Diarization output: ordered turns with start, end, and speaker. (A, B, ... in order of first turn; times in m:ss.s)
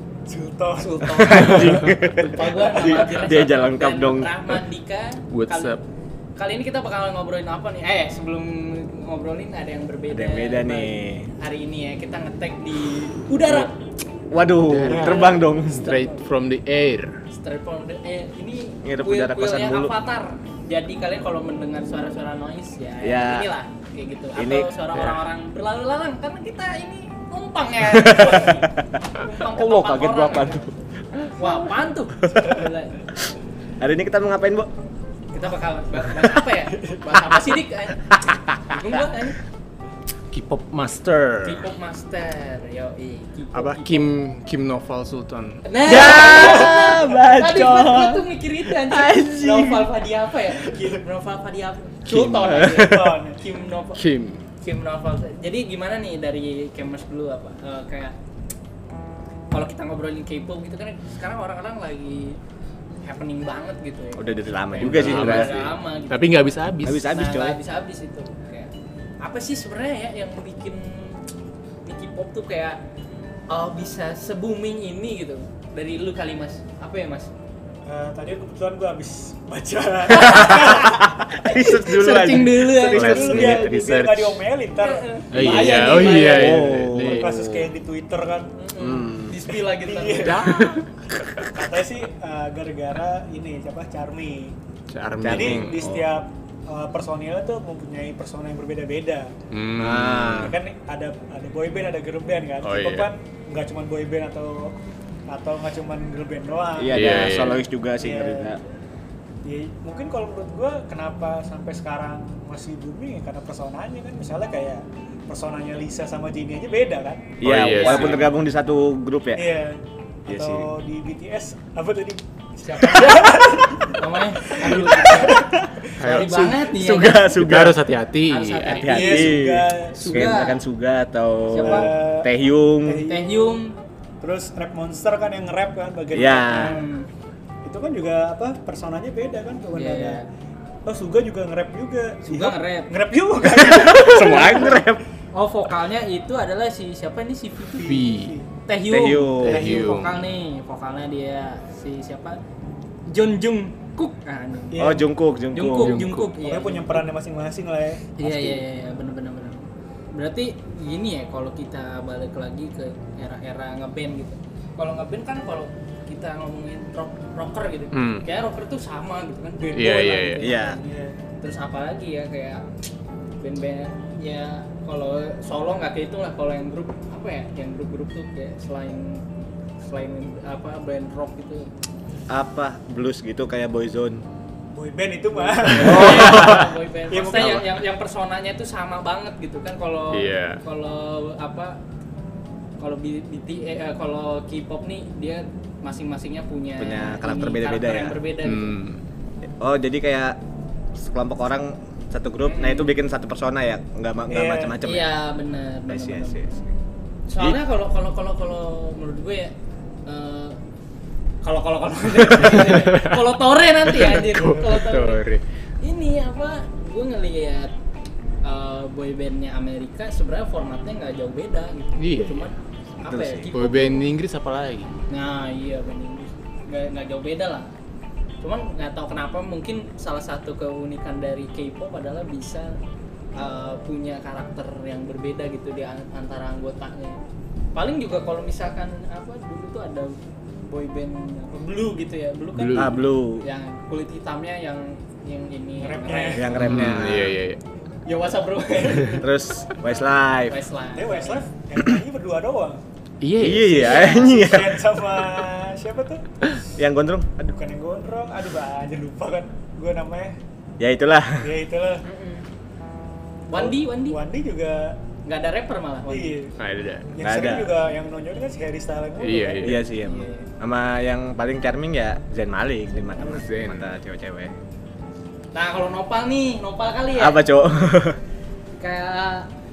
0:00.3-0:01.8 A
0:00.8-0:05.8 B
0:01.0-0:04.6 C
0:02.3-0:03.0 A
0:05.3-0:05.8 D
0:06.4-0:13.8 B
0:10.1-0:11.3 C
0:14.3-0:15.8 C
0:14.6-0:17.2 D
0:14.9-0:16.2 B
0:17.3-0:33.1 B
0:18.8-0:19.9 C
0:23.0-0:23.5 C
0:24.4-0:24.7 C
0:24.9-0:25.2 D
0:27.8-0:28.7 C
0:29.4-0:30.7 C
0:33.8-0:34.7 C
0:35.3-0:39.4 B
0:40.3-0:41.7 D
0:41.4-0:44.1 B
0:43.5-0:45.6 D
0:45.6-0:54.0 B
0:45.9-0:49.9 C
0:46.3-0:47.2 A
0:50.6-0:51.0 A
0:52.1-0:52.7 D
0:52.4-0:53.1 C
0:52.7-0:53.4 A
0:54.0-0:54.4 D
0:54.6-0:58.2 B
0:59.5-1:02.4 B
1:03.0-1:06.4 B
1:04.2-1:05.6 C
1:04.8-1:07.0 D
1:06.8-1:07.6 C
1:07.0-1:11.2 B
1:11.8-1:12.8 B
1:13.5-1:17.3 B
1:17.8-1:21.1 A
1:20.1-1:23.6 B
1:20.1-1:23.6 C
1:22.9-1:24.5 D
1:23.0-1:28.5 A
1:24.8-1:26.4 B
1:25.3-1:27.3 D
1:25.5-1:27.7 C
1:28.6-1:30.6 B
1:28.8-1:29.4 C
1:29.7-1:30.8 A
1:30.2-1:30.9 D
1:31.5-1:34.6 A
1:34.9-1:35.8 D
1:35.2-1:36.1 C
1:35.2-1:39.3 A
1:39.5-1:40.5 D
1:39.8-1:40.6 C
1:40.4-1:44.8 A
1:42.6-1:43.1 D
1:45.3-1:48.6 A
1:46.8-1:48.6 C
1:46.9-1:47.6 D
1:49.4-1:57.4 A
1:57.4-1:59.4 C
1:57.4-1:58.3 D
1:57.7-1:58.4 B
1:59.4-2:06.2 A
2:00.3-2:00.7 C
2:02.6-2:07.3 B
2:05.1-2:05.6 C
2:06.0-2:08.9 D
2:06.6-2:07.8 C
2:08.3-2:10.6 B
2:08.7-2:13.0 C
2:08.9-2:10.4 A
2:11.5-2:12.0 B
2:11.5-2:12.3 A
2:12.8-2:13.6 A
2:13.1-2:13.8 B
2:14.2-2:16.9 A
2:16.1-2:16.8 C
2:16.4-2:17.1 B
2:17.6-2:20.2 A
2:19.8-2:20.3 B
2:20.8-2:24.7 A
2:22.3-2:22.9 B
2:23.6-2:25.0 C
2:24.3-2:24.8 B
2:25.3-2:28.0 B
2:27.8-2:28.5 A
2:27.9-2:28.4 D
2:28.7-2:32.4 B
2:28.9-2:29.7 C
2:29.4-2:30.2 D
2:33.1-2:34.8 B
2:34.7-2:35.1 A
2:34.8-2:36.0 C
2:35.5-2:37.1 B
2:35.7-2:36.3 D
2:36.0-2:38.2 A
2:38.2-2:50.8 B
2:38.2-2:38.6 C
2:47.9-2:48.3 D
2:49.7-2:50.5 D
2:49.8-2:51.2 A
2:50.4-2:50.8 C
2:51.4-2:52.7 B
2:53.4-2:59.2 B
2:59.8-3:01.7 B
3:02.3-3:04.2 C
3:04.7-3:07.7 A
3:05.3-3:11.8 B
3:05.8-3:06.7 D
3:05.8-3:06.6 C
3:10.1-3:10.6 D
3:12.8-3:18.8 B
3:16.8-3:18.2 C
3:18.4-3:19.0 D
3:19.6-3:20.4 C
3:21.0-3:25.2 C
3:22.4-3:22.9 B
3:24.3-3:24.7 A
3:24.8-3:26.4 B
3:25.9-3:26.7 C
3:27.3-3:29.5 B
3:30.1-3:30.6 B
3:31.4-3:35.2 B
3:32.4-3:33.2 D
3:33.9-3:35.4 D
3:35.8-3:37.7 B
3:38.4-3:44.1 B
3:42.0-3:42.5 D
3:43.0-3:43.5 C
3:43.5-3:44.9 D
3:45.1-3:47.7 B
3:48.4-3:52.8 B
3:53.4-3:57.2 B
3:57.7-4:07.1 B
4:02.6-4:03.0 D
4:02.8-4:03.4 C
4:05.8-4:06.6 A
4:06.4-4:07.4 C
4:06.6-4:07.6 D
4:08.0-4:09.2 B
4:08.8-4:09.1 A
4:09.2-4:10.6 C
4:10.5-4:11.5 B
4:11.0-4:12.8 A
4:13.2-4:14.2 D
4:13.4-4:14.9 C
4:13.7-4:16.6 A
4:16.8-4:17.4 C
4:17.4-4:20.4 A
4:20.8-4:21.5 C
4:21.4-4:22.0 A
4:22.0-4:22.5 B
4:23.5-4:24.2 B
4:23.5-4:25.0 A
4:25.2-4:26.4 B
4:26.1-4:26.6 A
4:26.6-4:27.1 D
4:27.1-4:29.8 A
4:27.2-4:27.8 C
4:29.2-4:29.9 D
4:29.6-4:34.5 C
4:30.0-4:30.5 B
4:33.2-4:33.9 D
4:35.5-4:37.5 B
4:37.1-4:38.2 C
4:38.8-4:39.5 B